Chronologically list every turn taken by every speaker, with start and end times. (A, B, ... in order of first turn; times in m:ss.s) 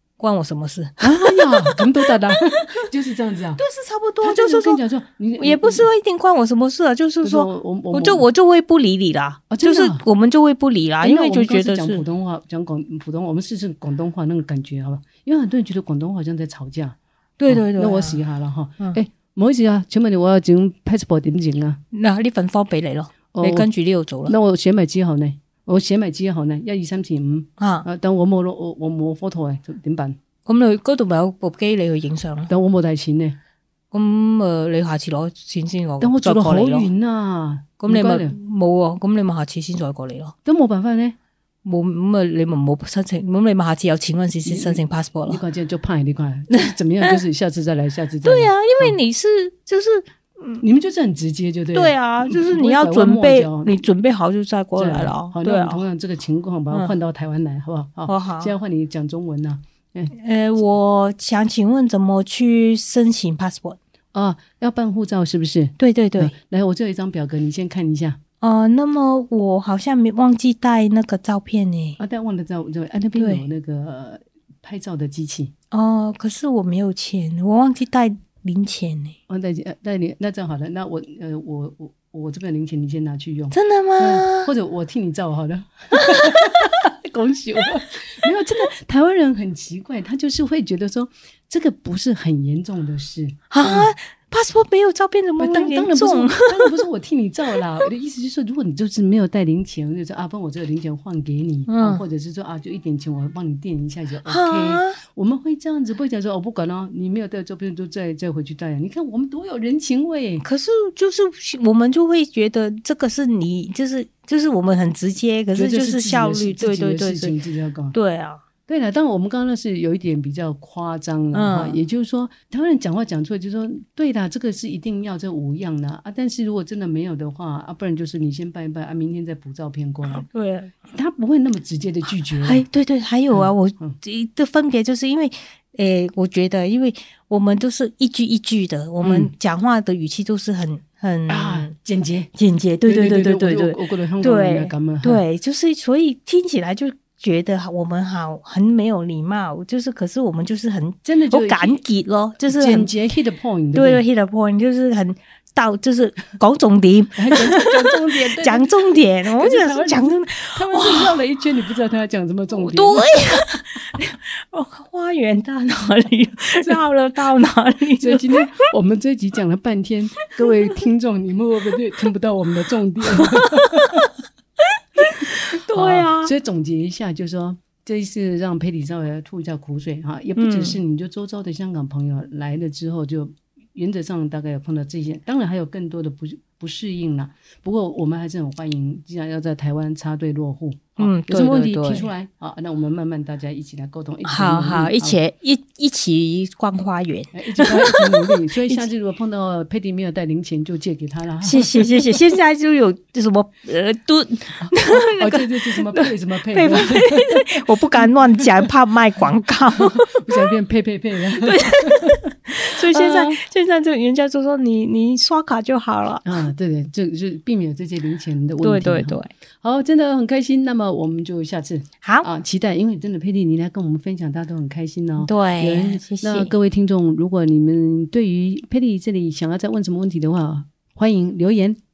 0:00.2-0:02.9 A
0:01.0-0:03.6 B
0:03.6-0:04.8 A
0:04.2-0:05.9 B
0:05.4-0:12.0 A
0:07.2-0:08.3 B
0:09.5-0:10.0 B
0:11.0-0:21.8 B
0:17.4-0:18.2 A
0:21.9-0:24.4 A
0:23.3-0:23.7 B
0:24.3-0:30.2 B
0:27.6-0:27.9 A
0:30.5-0:32.5 A
0:32.5-0:33.4 B
0:33.9-0:36.9 A
0:36.0-0:38.4 B
0:37.8-0:40.4 A
0:40.4-0:41.2 B
0:41.6-0:45.4 A
0:44.4-0:49.0 B
0:46.5-0:47.1 A
0:48.2-0:50.7 A
0:50.6-0:53.7 B
0:51.7-0:55.8 A
0:54.8-1:00.1 B
0:58.1-0:58.5 A
1:00.1-1:03.8 A
1:04.1-1:08.2 B
1:05.8-1:06.3 A
1:08.4-1:12.0 A
1:12.0-1:15.5 B
1:13.2-1:13.4 A
1:15.7-1:19.2 A
1:19.3-1:33.9 B
1:23.5-1:24.5 A
1:26.0-1:26.3 A
1:33.5-1:36.8 A
1:35.4-1:50.4 B
1:41.7-1:42.0 A
1:44.3-1:45.0 A
1:50.4-1:57.4 A
1:55.6-1:58.0 B
1:57.9-1:58.4 A
1:58.7-2:10.3 B
2:01.3-2:01.8 A
2:10.1-2:10.8 A
2:10.9-2:12.7 B
2:12.4-2:21.7 A
2:13.3-2:14.0 B
2:19.0-2:19.3 B
2:21.3-2:22.3 B
2:22.4-2:32.9 A
2:22.9-2:25.2 B
2:31.0-2:31.8 B
2:32.5-2:34.0 B
2:33.8-2:41.2 A
2:37.2-2:43.5 B
2:42.5-2:48.4 A
2:48.0-2:54.1 B
2:53.2-2:54.0 A
2:55.0-2:56.3 A
2:55.7-3:15.2 B
3:00.4-3:00.8 A
3:11.0-3:12.1 A
3:14.2-3:18.8 A
3:17.3-3:22.1 B
3:21.4-3:30.4 A
3:24.6-3:28.1 B
3:29.8-3:32.2 B
3:31.4-3:36.4 A
3:32.9-3:33.4 B
3:36.2-3:51.8 B
3:38.6-3:39.3 A
3:45.2-3:46.5 A